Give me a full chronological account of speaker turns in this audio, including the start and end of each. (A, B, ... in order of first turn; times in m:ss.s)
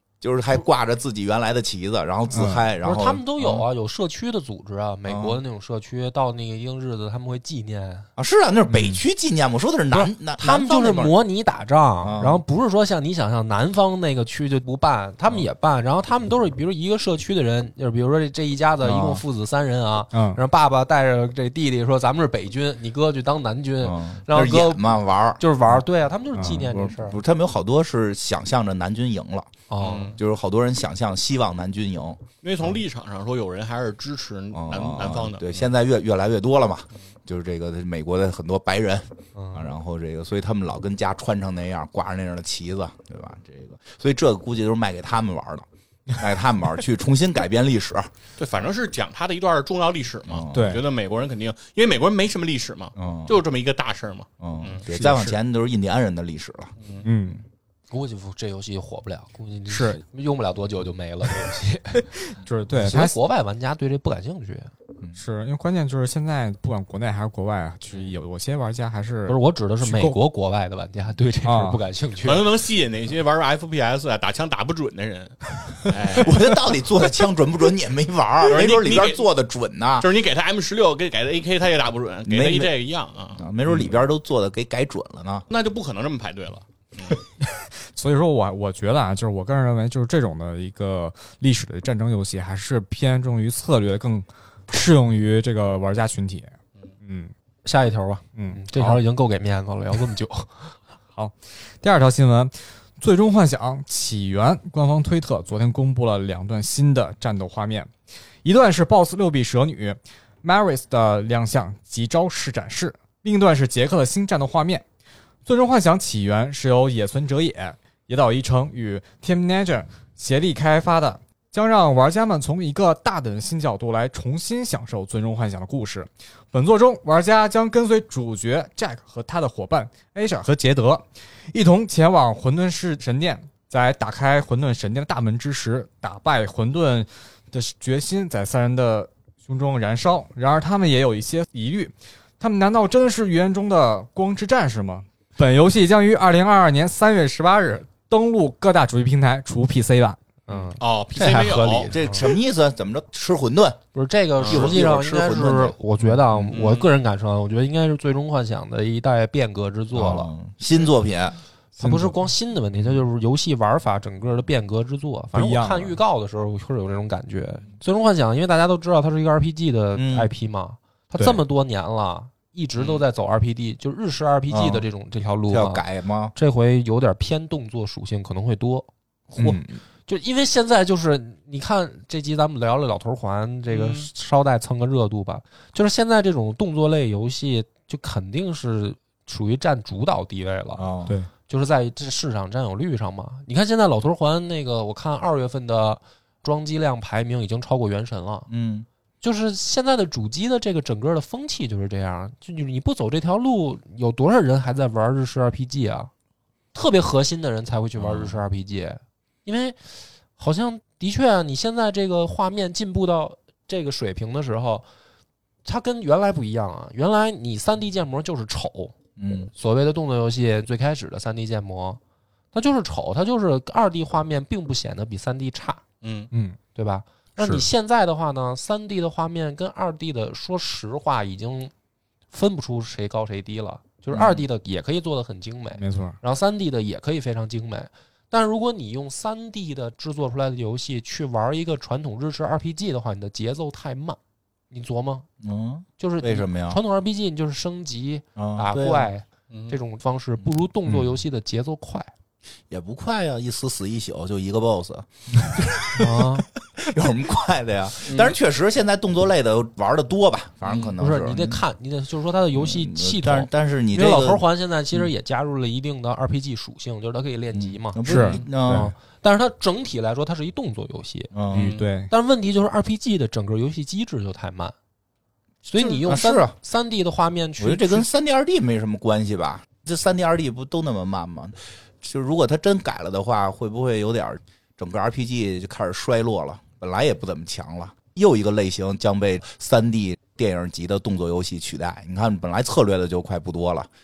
0:00.2-0:03.6 A
0:02.3-0:02.7 B
0:02.8-0:08.1 C
0:05.1-0:05.4 A
0:08.2-0:11.2 A
0:08.7-0:09.0 B
0:09.9-0:27.2 C
0:12.0-0:12.4 A
0:20.1-0:20.4 B
0:23.8-0:25.7 A
0:26.4-0:26.7 B
0:26.4-0:29.5 A
0:29.7-0:30.1 C
0:29.8-0:30.2 D
0:30.1-0:32.2 A
0:32.4-0:35.6 D
0:34.5-0:48.1 A
0:39.3-0:39.7 C
0:48.4-0:54.8 D
0:50.3-0:50.8 A
0:50.5-0:50.8 B
0:53.0-0:53.4 A
0:54.4-0:56.7 A
0:54.9-0:55.4 B
0:57.0-0:57.4 B
0:57.9-1:02.1 C
0:59.7-1:00.0 B
1:02.3-1:03.2 B
1:02.7-1:04.7 C
1:05.2-1:10.2 B
1:09.3-1:12.5 C
1:11.4-1:11.8 B
1:12.2-1:16.4 D
1:16.1-1:20.1 A
1:18.5-1:19.2 D
1:20.0-1:23.4 D
1:22.3-1:22.7 A
1:23.4-1:25.4 A
1:25.5-1:27.2 D
1:27.4-1:36.5 B
1:37.0-1:37.3 B
1:37.6-1:40.7 C
1:38.4-1:39.0 B
1:41.1-1:47.9 B
1:48.4-1:54.8 B
1:55.4-2:30.2 B
2:30.5-2:32.3 C
2:30.8-2:31.9 D
2:31.9-2:33.8 A
2:33.9-2:40.3 C
2:34.4-2:34.7 D
2:34.4-2:35.8 A
2:36.5-2:36.9 D
2:39.9-2:42.1 A
2:41.8-3:10.8 C
2:45.3-2:46.0 B
2:49.9-2:50.3 A
2:52.8-2:53.0 D
2:54.5-2:54.9 A
2:55.5-2:56.3 A
2:59.3-2:59.6 A
3:03.7-3:04.1 D
3:10.8-3:11.1 A
3:11.5-3:18.5 C
3:18.5-3:18.9 A
3:19.2-3:26.1 C
3:26.7-3:34.8 C
3:28.0-3:28.4 A
3:35.6-3:42.0 C
3:39.2-3:39.5 A
3:42.5-3:45.8 C
3:46.0-3:46.3 D
3:46.3-3:46.6 B
3:46.7-3:51.7 C
3:47.4-3:47.6 B
3:52.3-4:04.2 C
3:54.1-3:54.4 A
3:55.8-3:56.2 B
4:04.7-4:05.2 C
4:05.4-4:06.8 A
4:06.0-4:12.1 C
4:08.4-4:09.1 A
4:09.5-4:09.8 D
4:12.7-4:21.6 A
4:15.9-4:16.4 C
4:18.1-4:18.4 D
4:20.6-4:20.9 D
4:21.0-4:31.3 C
4:22.5-4:24.4 A
4:27.5-4:28.9 A
4:28.0-4:28.9 B
4:31.3-4:31.7 A
4:31.5-4:32.1 B
4:31.5-4:31.9 D
4:32.1-4:34.7 C
4:35.6-4:38.1 C
4:35.8-4:36.5 A
4:37.6-4:53.9 A